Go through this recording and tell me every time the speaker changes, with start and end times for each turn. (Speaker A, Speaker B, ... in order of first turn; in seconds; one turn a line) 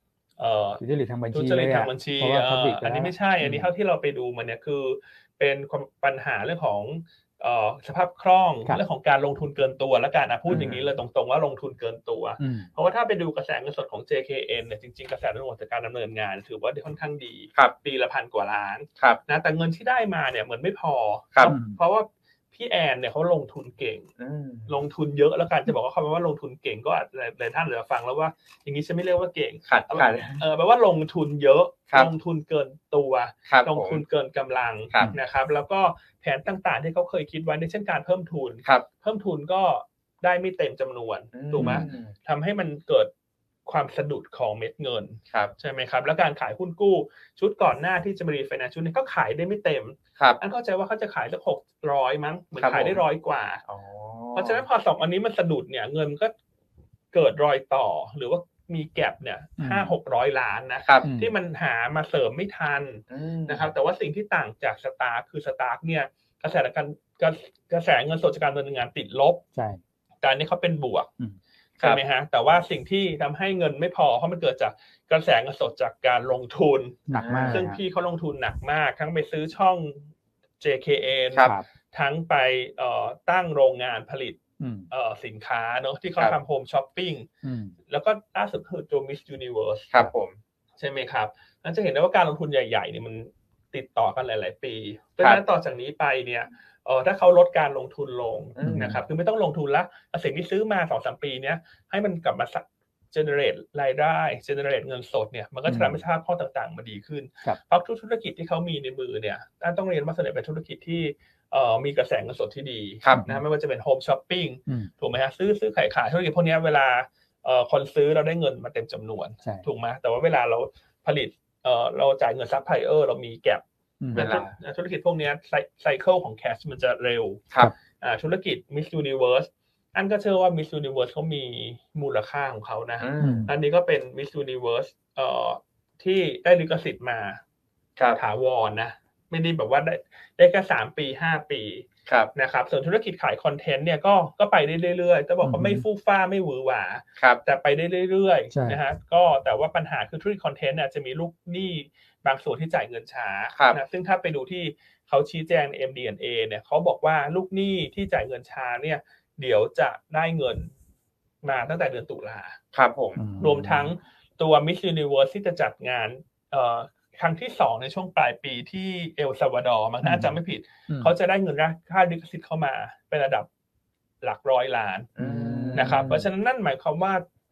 Speaker A: 0.4-0.8
Speaker B: 0.8-3.7
Speaker A: 1.3-24.1
Speaker C: 10.5-10.9
Speaker B: 12.4-12.7
Speaker B: 21.5-21.8
Speaker C: 24.2-24.8
Speaker A: 24.7-43.1
Speaker C: 29.7-30.4
Speaker C: 33.5-34.0
Speaker C: 41.3-42.1
Speaker B: 41.5-41.9
Speaker A: 43.6-53.6
Speaker C: 52.6-53.0
Speaker C: 53.6-54.6
Speaker A: 54.3-56.3
Speaker A: 57.1-69.4
Speaker B: 59.6-59.9
Speaker C: 60.8-61.1
Speaker B: 61.0-61.3
Speaker C: 63.1-63.7
Speaker B: 69.5-69.8
Speaker A: 70.2-71.1
Speaker A: 71.8-80.1
Speaker B: 77.1-77.8
Speaker C: 77.2-77.6
Speaker A: 80.6-84.4
Speaker B: 84.6-84.9
Speaker A: 84.9-87.3
Speaker B: 87.4-87.8
Speaker A: 87.9-89.9
Speaker C: 89.9-90.3
Speaker A: 90.8-127.4
Speaker C: 98.6-98.9
Speaker B: 98.6-99.0
Speaker B: 105.7-106.0
Speaker B: 113.1-113.4
Speaker B: 124.0-124.3
Speaker C: 124.1-124.5
Speaker A: 128.0-137.4
Speaker C: 133.0-133.5
Speaker B: 133.2-133.5
Speaker A: 138.1-160.7
Speaker C: 142.1-142.3
Speaker B: 145.4-145.8
Speaker B: 148.5-148.8
Speaker C: 153.5-153.8
Speaker A: 161.4-162.6
Speaker C: 162.7-163.2
Speaker B: 163.2-163.9
Speaker A: 163.4-173.5
Speaker B: 170.0-170.4
Speaker A: 174.2-175.1
Speaker C: 175.2-176.2
Speaker B: 175.2-176.2
Speaker A: 175.7-177.2